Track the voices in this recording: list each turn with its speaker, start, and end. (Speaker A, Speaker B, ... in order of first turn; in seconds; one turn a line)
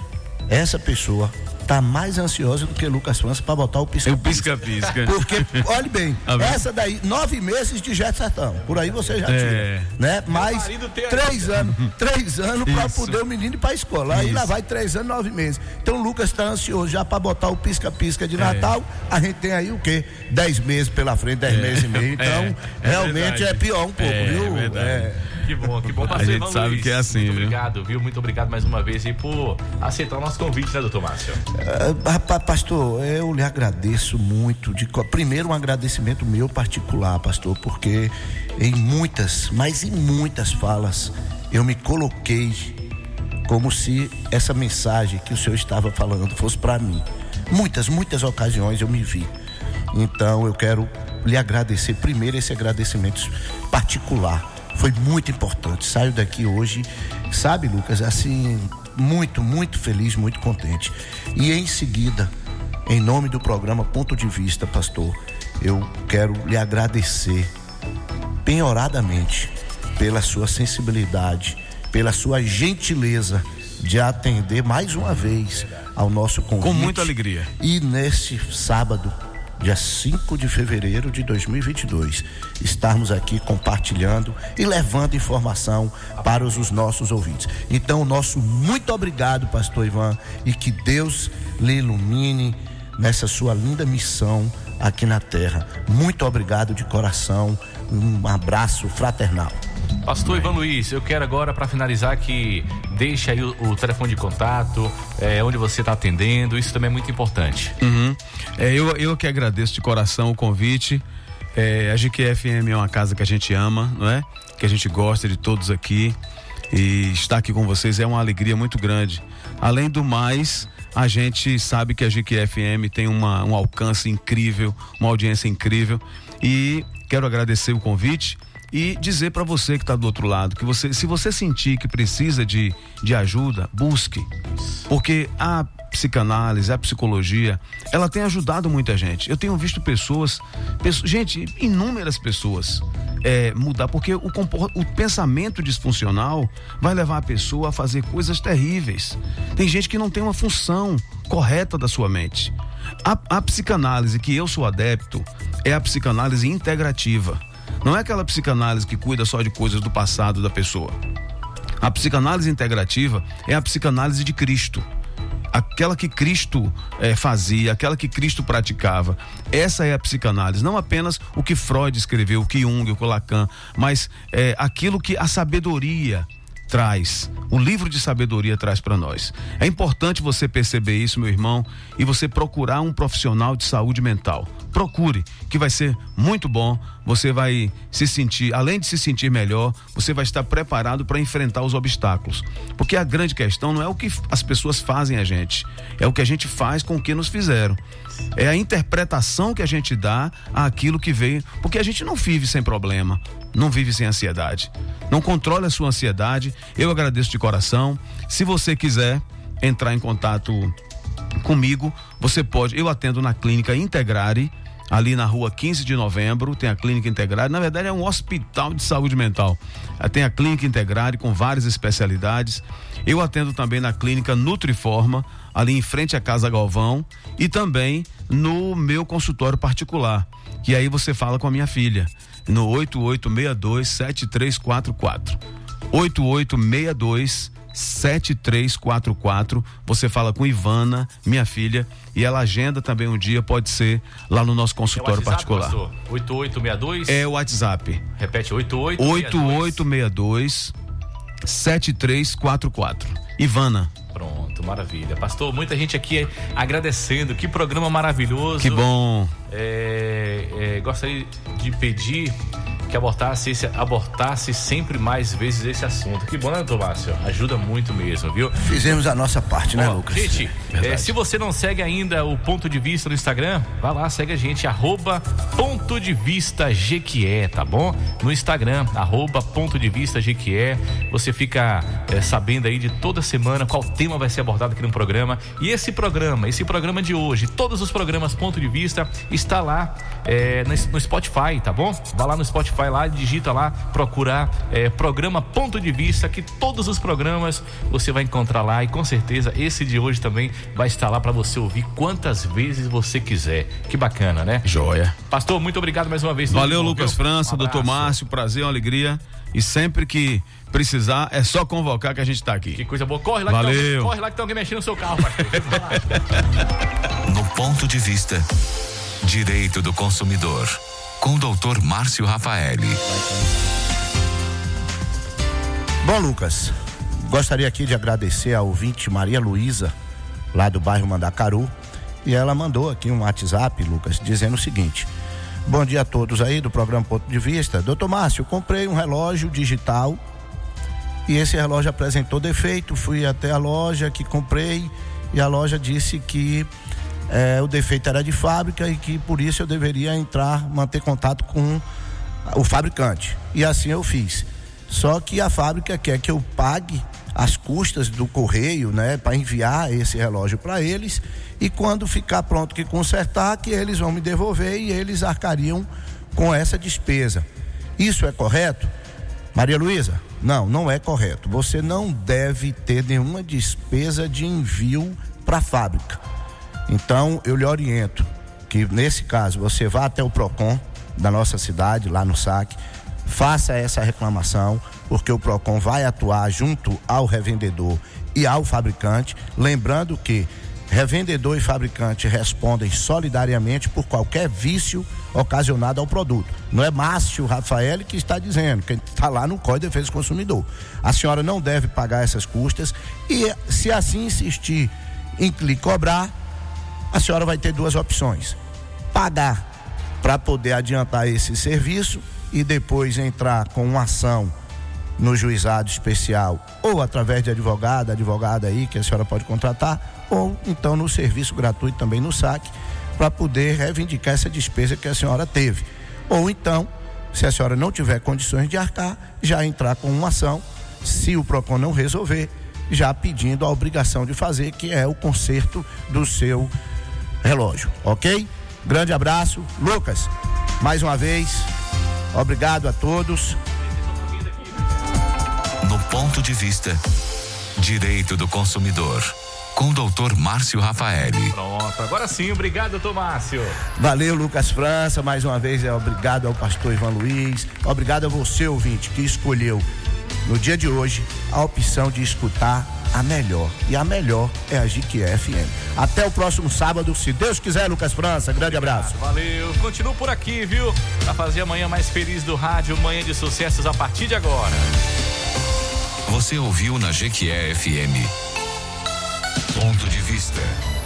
Speaker A: 0.5-25.2
Speaker B: 4.0-5.7
Speaker B: 6.2-6.6
Speaker C: 8.6-9.2
Speaker B: 9.2-9.9
Speaker C: 10.3-11.6
Speaker B: 12.7-13.2
Speaker B: 14.1-14.5
Speaker B: 18.4-18.7
Speaker B: 21.5-25.2
Speaker C: 25.4-31.4
Speaker B: 25.9-27.6
Speaker A: 31.5-42.8
Speaker A: 43.5-49.3
Speaker A: 49.9-62.3
Speaker A: 62.9-67.5
Speaker A: 68.4-99.6
Speaker B: 76.6-77.5
Speaker C: 86.2-86.7
Speaker C: 100.0-107.7
Speaker B: 107.8-111.0
Speaker B: 111.5-116.2
Speaker B: 116.7-134.3
Speaker B: 134.9-152.5
Speaker B: 153.0-161.0
Speaker B: 161.8-164.8
Speaker B: 165.5-197.8
Speaker B: 198.3-210.7
Speaker B: 211.4-235.4
Speaker B: 235.9-245.8
Speaker C: 244.9-247.2
Speaker B: 247.1-248.0
Speaker C: 248.2-249.8
Speaker B: 249.0-250.7
Speaker B: 251.4-253.9
Speaker C: 254.1-258.8
Speaker B: 258.6-259.3
Speaker C: 259.5-262.4
Speaker C: 262.9-268.6
Speaker A: 268.6-270.5
Speaker C: 269.7-304.7
Speaker B: 270.7-271.1
Speaker B: 304.6-305.1
Speaker C: 305.3-308.1
Speaker B: 306.5-312.8
Speaker C: 312.7-316.2
Speaker B: 313.5-314.1
Speaker D: 317.2-318.4
Speaker D: 319.2-323.0
Speaker A: 326.0-329.9
Speaker A: 330.5-331.7
Speaker A: 332.2-335.1
Speaker A: 335.6-340.2
Speaker A: 341.3-346.7
Speaker A: 347.3-351.8
Speaker A: 352.4-367.4
Speaker A: 368.0-368.9
Speaker A: 369.5-376.2
Speaker A: 376.9-406.3
Speaker A: 407.1-408.6
Speaker A: 409.1-409.6
Speaker A: 410.2-414.5
Speaker A: 415.2-436.7
Speaker A: 437.4-441.7
Speaker A: 442.3-443.6
Speaker C: 443.9-444.9
Speaker D: 445.8-447.0
Speaker D: 447.8-451.5
Speaker C: 451.5-453.8
Speaker A: 453.9-459.9
Speaker A: 460.4-469.2
Speaker C: 468.6-474.9
Speaker D: 476.3-478.3
Speaker D: 479.7-480.8